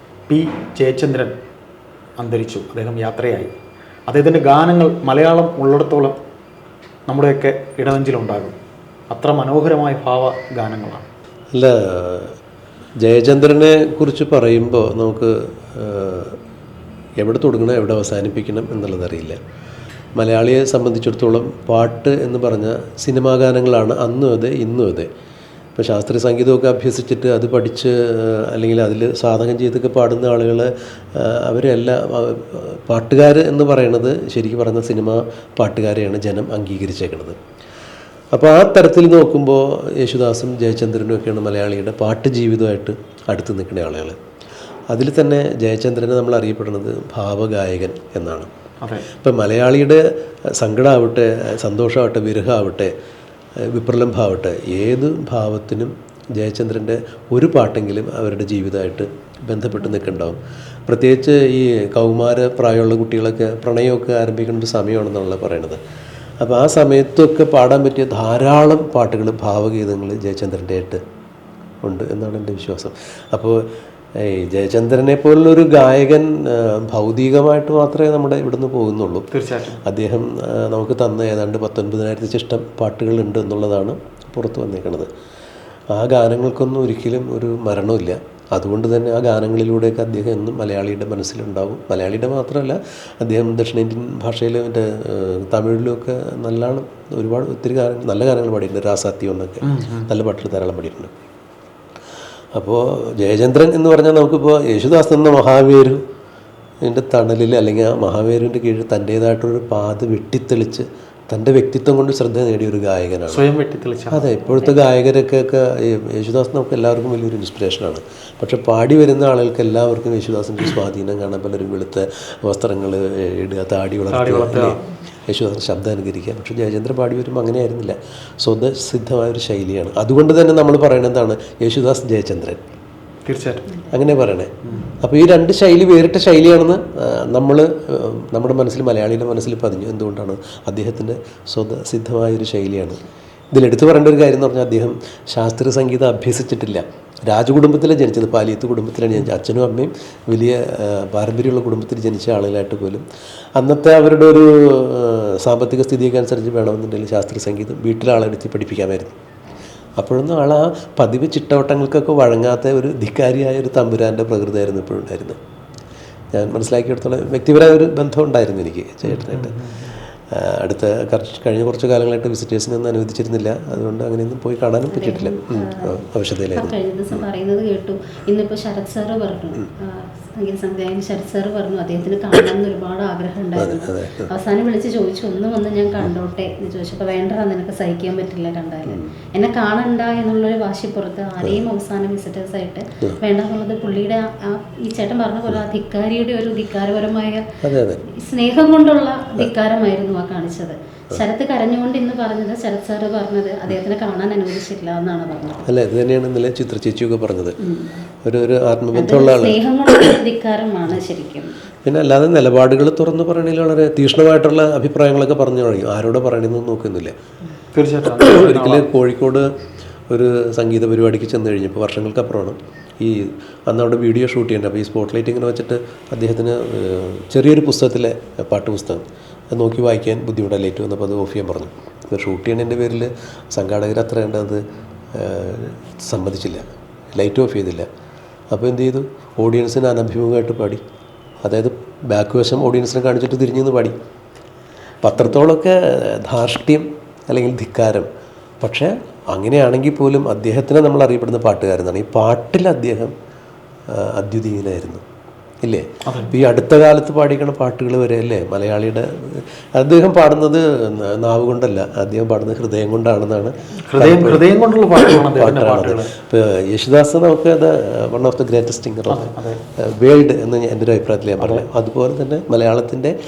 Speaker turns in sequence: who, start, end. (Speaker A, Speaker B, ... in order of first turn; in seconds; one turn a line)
Speaker A: 0.3-1.4
Speaker A: 2.2-3.5
Speaker A: 4.1-6.2
Speaker A: 7.1-8.6
Speaker A: 9.1-11.1
Speaker B: 11.5-12.4
Speaker B: 13.0-16.4
Speaker B: 17.2-19.4
Speaker B: 20.2-25.1
Speaker B: 25.8-37.4
Speaker B: 38.3-44.2
Speaker B: 44.9-48.5
Speaker B: 49.2-50.0
Speaker B: 50.6-52.9
Speaker B: 53.7-65.8
Speaker B: 66.4-71.0
Speaker B: 71.8-73.6
Speaker B: 74.2-79.3
Speaker A: 79.3-79.8
Speaker B: 79.8-85.1
Speaker B: 85.9-101.1
Speaker A: 99.6-100.1
Speaker B: 102.5-106.0
Speaker B: 106.8-113.5
Speaker A: 113.3-114.3
Speaker B: 114.1-132.6
Speaker C: 114.3-114.8
Speaker A: 124.1-124.8
Speaker A: 133.3-133.7
Speaker B: 133.9-134.5
Speaker B: 135.0-153.0
Speaker B: 153.6-159.2
Speaker B: 160.0-165.4
Speaker B: 166.3-169.6
Speaker A: 169.1-169.9
Speaker B: 170.3-177.2
Speaker C: 174.9-176.0
Speaker C: 176.5-197.4
Speaker B: 183.6-184.3
Speaker B: 197.6-198.0
Speaker C: 198.1-205.7
Speaker B: 205.7-207.6
Speaker C: 207.6-208.1
Speaker B: 208.2-210.1
Speaker C: 209.0-211.6
Speaker B: 211.8-217.1
Speaker A: 217.7-218.9
Speaker B: 218.1-219.5
Speaker B: 220.1-234.6
Speaker B: 235.1-237.9
Speaker B: 238.5-240.8
Speaker B: 241.4-244.0
Speaker B: 245.0-248.1
Speaker B: 248.6-253.1
Speaker B: 253.9-255.0
Speaker B: 255.6-273.1
Speaker A: 256.1-256.3
Speaker A: 263.9-266.1
Speaker A: 269.1-269.6
Speaker A: 271.4-271.7